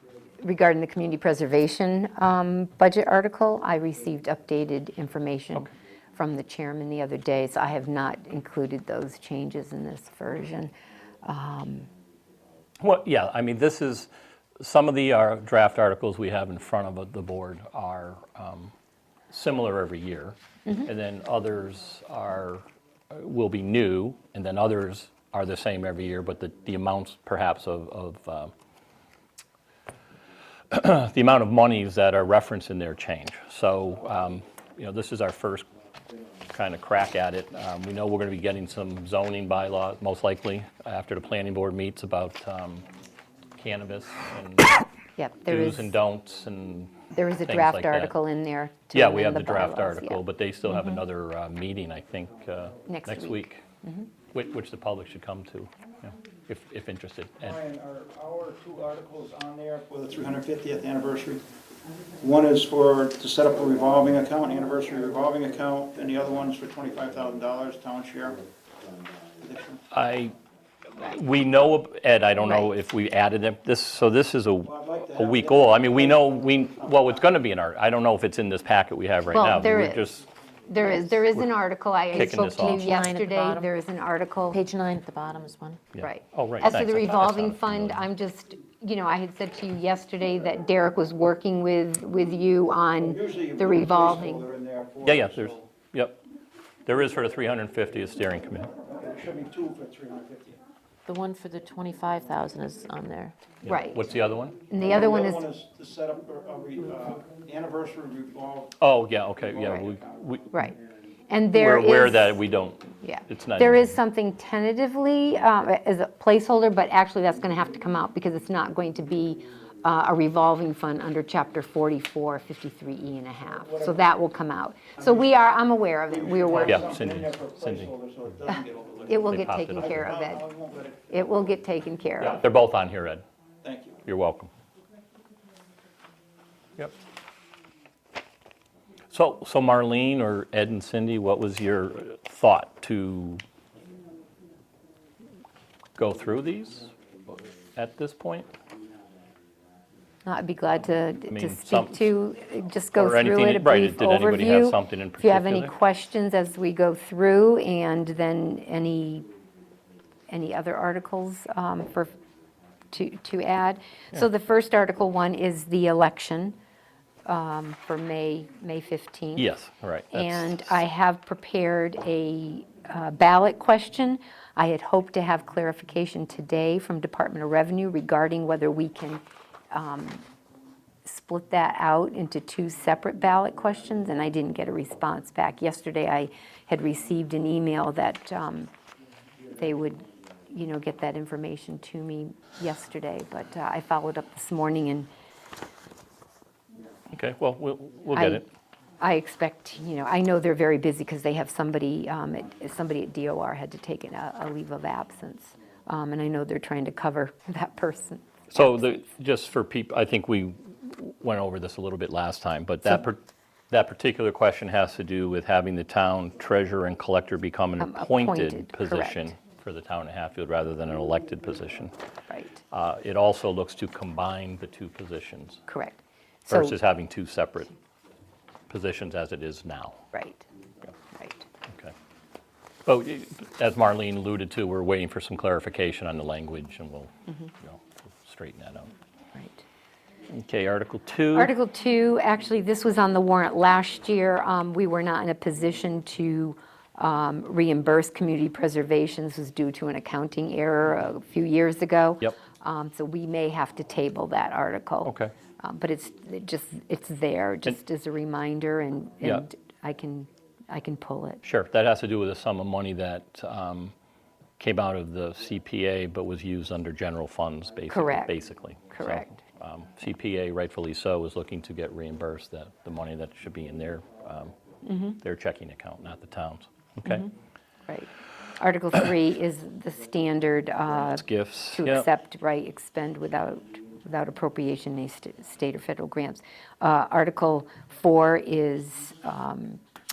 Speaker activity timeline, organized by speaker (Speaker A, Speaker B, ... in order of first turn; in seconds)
Speaker A: 0.4-10.7, 11.2-11.9, 45.2-45.9, 47.1-51.0, 52.9-54.1, 72.4-72.7, 79.3-80.1, 80.7-84.6, 86.0-94.5, 103.7-104.0, 104.7-105.5, 110.5-110.8, 111.3-112.4, 113.0-126.9, 129.1-130.4, 131.1-132.4, 150.2-159.3, 160.3-162.1, 162.9-166.6, 167.2-169.5, 170.1-180.2, 181.1-188.7, 189.6-195.1, 198.2-198.4, 199.0-208.8, 217.8-219.3, 222.3-222.6, 225.7-226.8, 230.1-230.5, 231.1-231.5, 239.3-239.6, 241.3-261.4, 267.9-268.4, 268.9-269.3, 274.9-275.2, 277.1-277.3, 277.9-289.8
Speaker B: 12.8-14.1, 14.6-18.7, 19.3-28.5, 30.7-35.7, 36.5-42.9, 43.6-44.8, 45.5-46.9, 47.5-48.2, 48.9-53.6, 54.3-57.6, 69.9-70.3, 71.0-80.3, 82.1-82.9, 85.9-88.0, 95.0-96.2, 96.9-98.7, 103.6-104.6, 108.8-110.6, 111.5-114.0, 126.7-127.9, 129.3-130.1, 132.2-133.2, 134.1-134.5, 139.1-143.4, 146.0-148.5, 151.3-152.1, 152.9-155.7, 169.4-170.6, 197.1-198.5, 208.5-213.2, 213.7-221.9, 222.7-225.6, 226.5-227.7, 228.7-230.0, 231.7-231.9, 232.9-238.9, 240.3-241.5, 255.0-255.3, 261.4-263.9, 264.6-274.5, 275.2-277.3, 281.1-282.1
Speaker C: 57.4-61.4, 62.2-68.4, 69.4-69.8, 74.7-77.2, 93.0-95.7, 98.8-100.6, 104.8-108.8, 123.7-124.0, 126.1-131.3, 133.6-134.0
Speaker D: 82.2-83.7, 84.5-85.8, 101.1-103.3